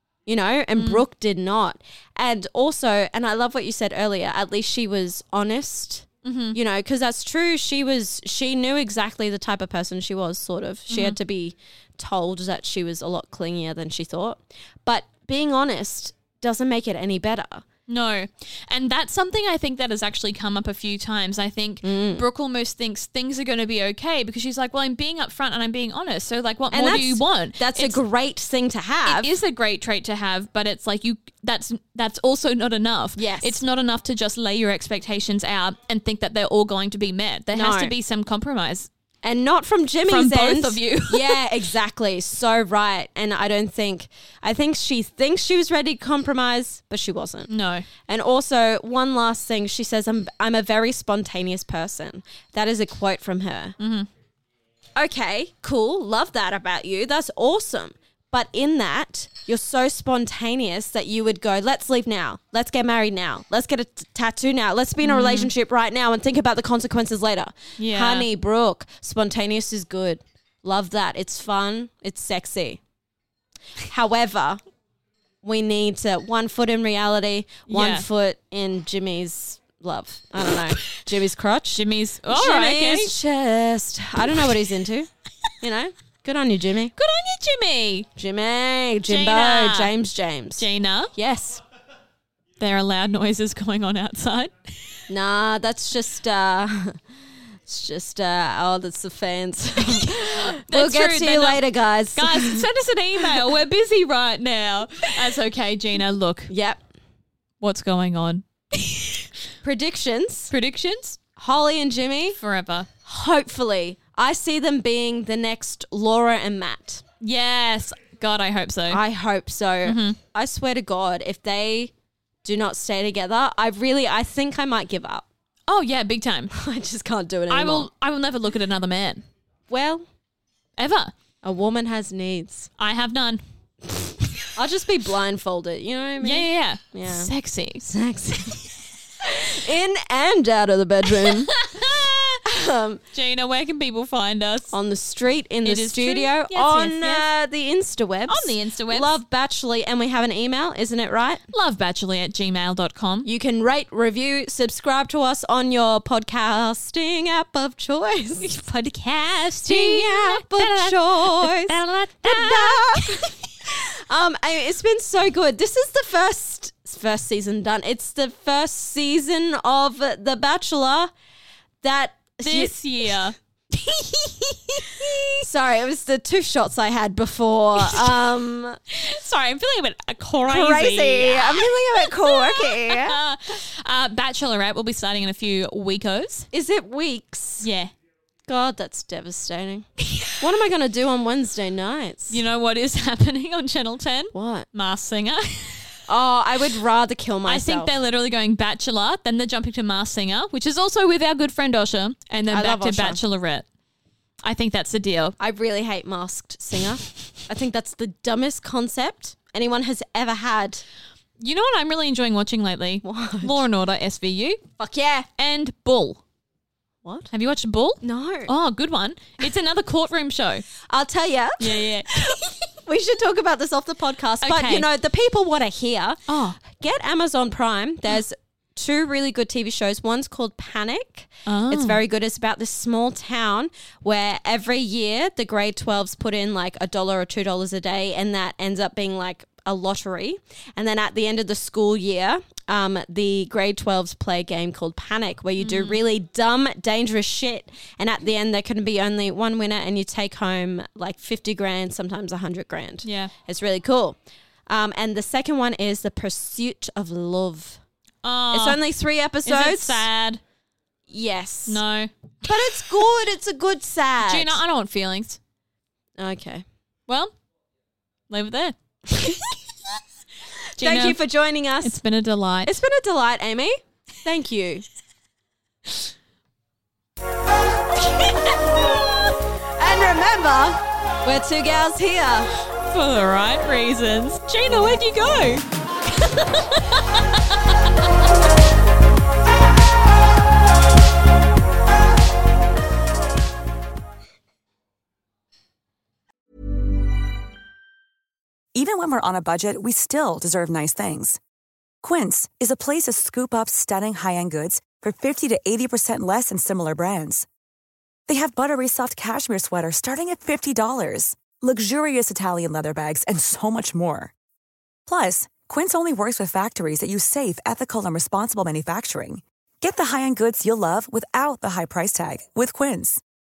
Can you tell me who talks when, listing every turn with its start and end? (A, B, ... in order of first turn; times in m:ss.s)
0:00.3-0:17.6 A
0:00.8-0:01.0 B
0:06.2-0:06.6 B
0:10.9-0:11.2 B
0:17.9-0:28.0 B
0:21.8-0:22.2 A
0:26.7-0:29.3 A
0:29.0-0:38.9 B
0:33.2-0:33.6 A
0:37.5-0:37.9 A
0:39.2-0:47.5 A
0:40.1-0:41.4 B
0:47.5-0:47.9 B
0:48.1-0:53.8 A
0:53.8-0:54.1 B
0:55.0-1:12.8 A
1:05.0-1:05.5 B
1:07.8-1:08.3 B
1:13.8-1:14.6 A
1:15.4-1:25.1 A
1:17.7-1:18.0 B
1:21.7-1:23.1 B
1:25.6-1:27.0 A
1:27.0-1:28.1 B
1:28.1-1:31.6 A
1:29.0-1:29.9 B
1:30.6-1:31.1 B
1:32.6-1:34.7 B
1:35.1-1:37.0 A
1:37.7-1:42.6 A
1:39.8-1:46.5 B
1:46.5-1:46.8 A
1:47.6-1:49.3 B
1:49.6-1:50.5 A
1:50.5-1:51.2 B
1:51.4-1:52.4 A
1:52.3-1:52.9 B
1:53.0-1:57.0 A
1:57.2-1:59.0 B
1:58.9-2:01.9 A
1:59.8-2:00.2 B
2:02.4-2:05.3 A
2:05.7-2:06.5 B
2:06.5-2:07.9 A
2:07.5-2:09.2 B
2:09.7-2:10.0 A
2:10.8-2:11.1 B
2:11.4-2:12.7 A
2:12.8-2:13.4 B
2:14.5-2:17.3 A
2:16.2-2:17.9 B
2:17.8-2:18.6 A
2:19.2-2:21.5 A
2:21.1-2:22.4 B
2:22.4-2:23.0 A
2:23.1-2:24.7 B
2:24.7-2:31.4 A
2:25.6-2:27.2 B
2:28.3-2:29.1 B
2:31.5-2:33.3 B
2:33.2-2:38.5 A
2:38.4-2:43.3 B
2:39.6-2:51.1 A
2:51.8-2:52.7 A
2:52.4-2:53.4 B
2:53.9-2:55.4 B
2:55.4-2:58.8 A
2:57.8-2:58.1 B
2:58.9-3:06.5 B
3:00.4-3:03.2 A
3:06.5-3:07.7 A
3:07.6-3:07.9 B
3:08.5-3:12.4 A
3:12.3-3:16.0 B
3:14.3-3:14.7 A
3:16.1-3:17.9 A
3:17.4-3:23.7 B
3:22.5-3:23.2 A
3:24.4-3:25.4 B
3:25.4-3:30.8 A
3:31.4-3:34.6 B
3:33.0-3:33.6 A
3:34.8-3:35.3 A
3:35.4-3:36.2 B
3:37.0-3:37.3 A
3:37.3-3:40.6 B
3:38.0-3:38.5 A
3:40.8-4:14.2 A
3:41.6-3:42.4 B
3:44.4-3:44.9 B
3:46.3-3:46.6 B
3:51.4-3:52.0 B
4:05.6-4:06.0 B
4:13.0-4:13.3 B
4:14.7-4:17.8 A
4:18.2-4:18.8 B
4:18.5-4:20.1 A
4:19.4-4:20.4 B
4:21.1-4:21.8 A
4:21.7-4:22.1 B
4:22.4-4:24.6 A
4:24.2-4:25.4 B
4:26.2-4:26.7 A
4:27.1-4:27.3 B
4:28.3-4:28.8 B
4:29.1-4:29.5 A
4:30.8-4:31.2 B
4:30.8-4:32.0 A
4:31.8-4:32.7 B
4:32.7-4:34.8 A
4:38.1-4:38.4 B
4:39.8-4:42.5 A
4:42.8-4:47.7 B
4:58.7-5:01.4 C
5:02.0-5:07.4 C
5:08.3-5:14.3 C
5:15.0-5:23.2 C